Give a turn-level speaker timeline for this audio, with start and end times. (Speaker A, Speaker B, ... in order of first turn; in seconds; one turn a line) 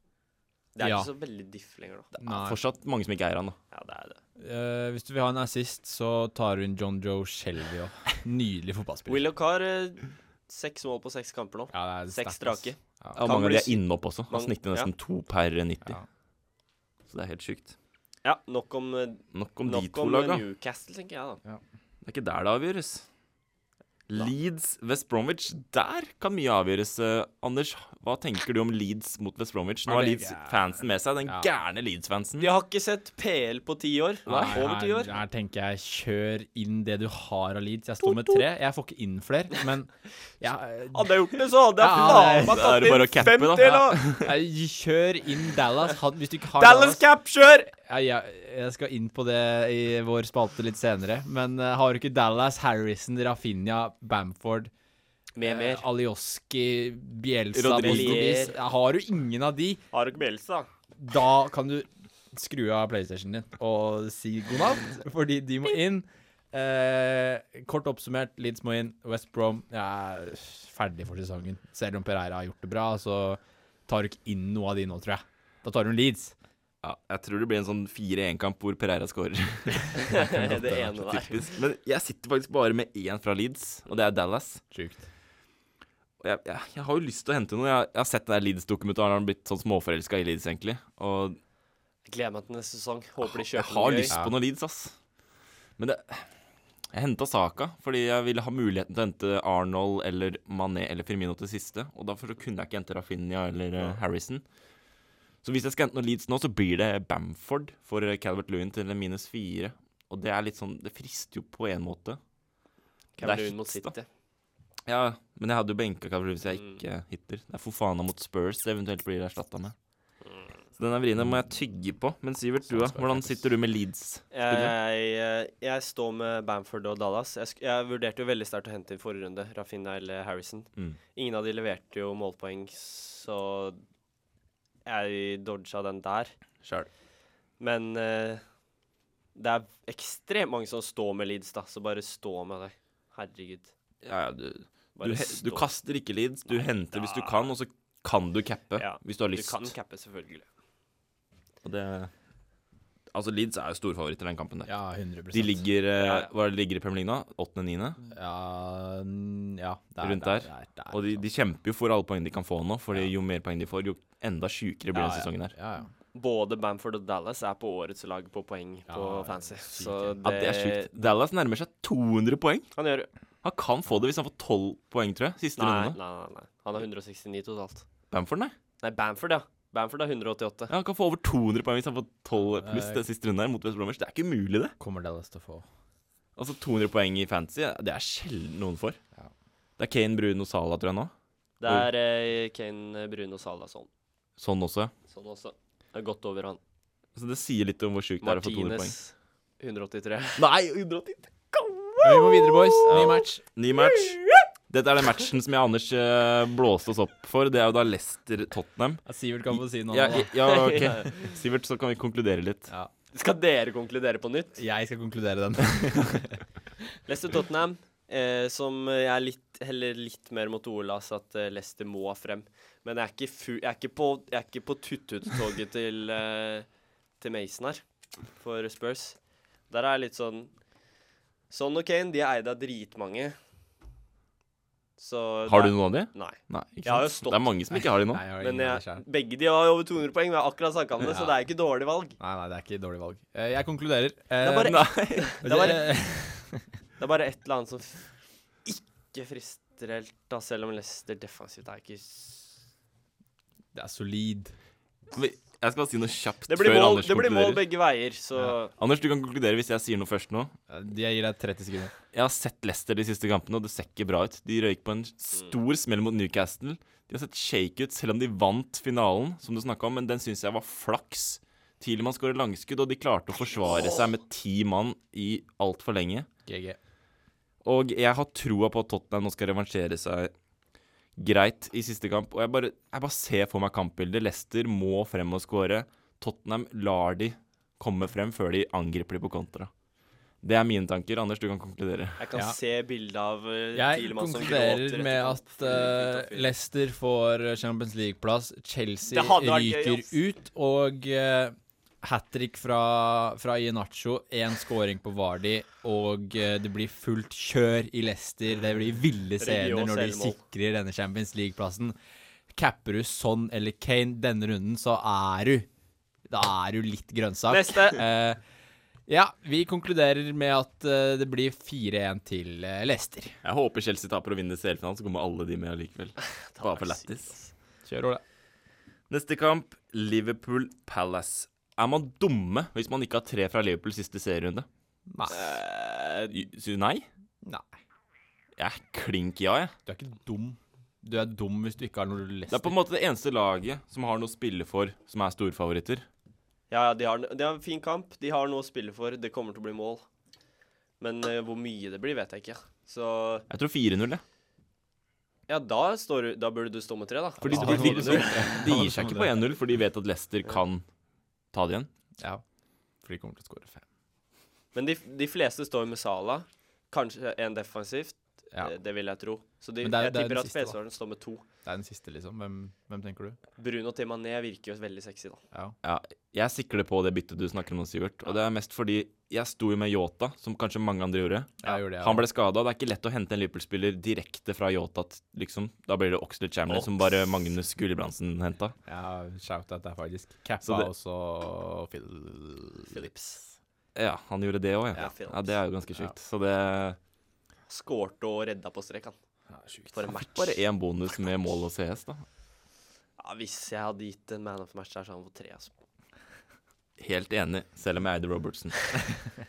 Speaker A: 0.8-2.1
Speaker B: 0.8-1.1
Speaker B: 2.2-2.6
Speaker C: 2.3-3.6
Speaker A: 3.7-4.2
Speaker B: 4.4-9.3
Speaker A: 9.1-14.9
Speaker B: 11.7-13.3
Speaker C: 13.2-16.0
Speaker C: 17.1-17.8
Speaker A: 18.2-21.4
Speaker C: 19.3-20.4
Speaker C: 22.0-23.1
Speaker C: 24.1-32.5
Speaker B: 29.9-30.6
Speaker A: 32.4-35.1
Speaker C: 34.3-34.6
Speaker B: 34.3-43.0
Speaker A: 38.0-38.4
Speaker A: 40.9-44.1
Speaker C: 42.4-44.4
Speaker B: 44.2-47.0
Speaker A: 46.6-47.7
Speaker B: 47.7-54.7
Speaker A: 55.4-55.9
Speaker B: 55.4-59.8
Speaker C: 57.5-58.4
Speaker A: 57.7-58.5
Speaker A: 59.9-60.7
Speaker B: 61.0-76.4
Speaker C: 76.8-84.6
Speaker A: 79.9-81.5
Speaker B: 84.7-85.1
Speaker C: 86.2-91.4
Speaker A: 92.1-94.1
Speaker C: 93.2-94.9
Speaker B: 94.1-94.4
Speaker C: 95.8-96.3
Speaker C: 96.9-104.4
Speaker C: 105.4-112.2
Speaker A: 113.2-114.1
Speaker C: 113.2-113.9
Speaker C: 114.9-119.8
Speaker C: 120.8-124.8
Speaker B: 122.7-123.4
Speaker A: 124.3-133.8
Speaker A: 134.9-136.3
Speaker C: 136.6-136.9
Speaker A: 137.6-138.4
Speaker A: 139.3-143.7
Speaker C: 144.0-149.7
Speaker A: 145.0-145.7
Speaker A: 146.5-147.5
Speaker A: 148.8-150.5
Speaker C: 151.6-152.1
Speaker C: 153.1-154.7
Speaker B: 154.7-155.7
Speaker C: 155.3-158.0
Speaker A: 156.0-156.3
Speaker B: 158.1-161.2
Speaker C: 160.0-165.5
Speaker B: 164.9-165.9
Speaker A: 166.1-171.1
Speaker B: 168.9-170.2
Speaker C: 170.2-172.7
Speaker A: 172.8-173.1
Speaker C: 173.4-176.0
Speaker A: 175.6-177.8
Speaker C: 178.1-178.6
Speaker A: 178.8-180.7
Speaker C: 180.7-184.8
Speaker B: 182.4-183.0
Speaker B: 184.8-185.7
Speaker C: 186.4-189.0
Speaker C: 189.8-191.1
Speaker A: 191.6-193.9
Speaker C: 191.7-191.9
Speaker C: 194.4-194.9
Speaker A: 195.1-196.6
Speaker C: 197.2-198.9
Speaker A: 198.2-200.4
Speaker C: 200.4-212.7
Speaker B: 202.0-203.4
Speaker B: 209.1-210.4
Speaker A: 210.4-211.2
Speaker A: 213.1-214.6
Speaker B: 214.6-216.4
Speaker A: 217.1-226.7
Speaker A: 227.2-227.8
Speaker A: 228.4-229.2
Speaker A: 229.7-230.5
Speaker A: 231.5-233.4
Speaker A: 235.0-237.5
Speaker C: 235.5-238.2
Speaker B: 237.7-239.0
Speaker A: 238.4-242.2
Speaker B: 242.2-246.7
Speaker A: 244.4-245.9
Speaker C: 244.5-245.4
Speaker A: 247.0-248.1
Speaker A: 248.7-252.5
Speaker B: 253.7-254.5
Speaker C: 255.1-257.6
Speaker A: 256.5-258.7
Speaker C: 258.8-260.5
Speaker B: 260.7-261.9
Speaker C: 262.1-276.3
Speaker B: 276.5-276.8
Speaker C: 277.6-280.3
Speaker C: 281.2-289.7
Speaker C: 290.4-292.2
Speaker A: 292.2-296.5
Speaker B: 293.7-312.0
Speaker A: 299.1-300.2
Speaker A: 309.4-310.4
Speaker B: 312.5-315.7
Speaker B: 316.3-318.4
Speaker A: 317.5-318.0
Speaker B: 319.1-323.4
Speaker C: 323.4-327.3
Speaker A: 326.2-327.5
Speaker B: 327.9-328.2
Speaker C: 329.1-334.7
Speaker B: 335.1-335.6
Speaker A: 335.3-336.4
Speaker C: 336.3-337.1
Speaker B: 337.4-337.7
Speaker C: 338.6-339.7
Speaker B: 339.9-342.8
Speaker C: 342.5-346.1
Speaker A: 346.7-350.0
Speaker A: 351.0-353.5
Speaker C: 353.5-354.2
Speaker A: 355.5-358.6
Speaker C: 357.4-360.9
Speaker B: 357.4-359.4
Speaker C: 361.5-361.9
Speaker B: 363.0-363.8
Speaker A: 364.8-371.4
Speaker B: 369.8-370.8
Speaker B: 371.6-373.4
Speaker A: 373.6-375.4
Speaker C: 375.8-388.8
Speaker B: 381.6-382.3
Speaker B: 388.9-393.1
Speaker C: 390.6-390.9
Speaker A: 392.9-393.4
Speaker C: 393.9-397.0
Speaker A: 394.9-395.6
Speaker A: 397.7-399.2
Speaker B: 399.5-400.1
Speaker A: 399.9-400.6
Speaker C: 400.1-402.2
Speaker A: 403.2-405.7
Speaker C: 407.0-409.0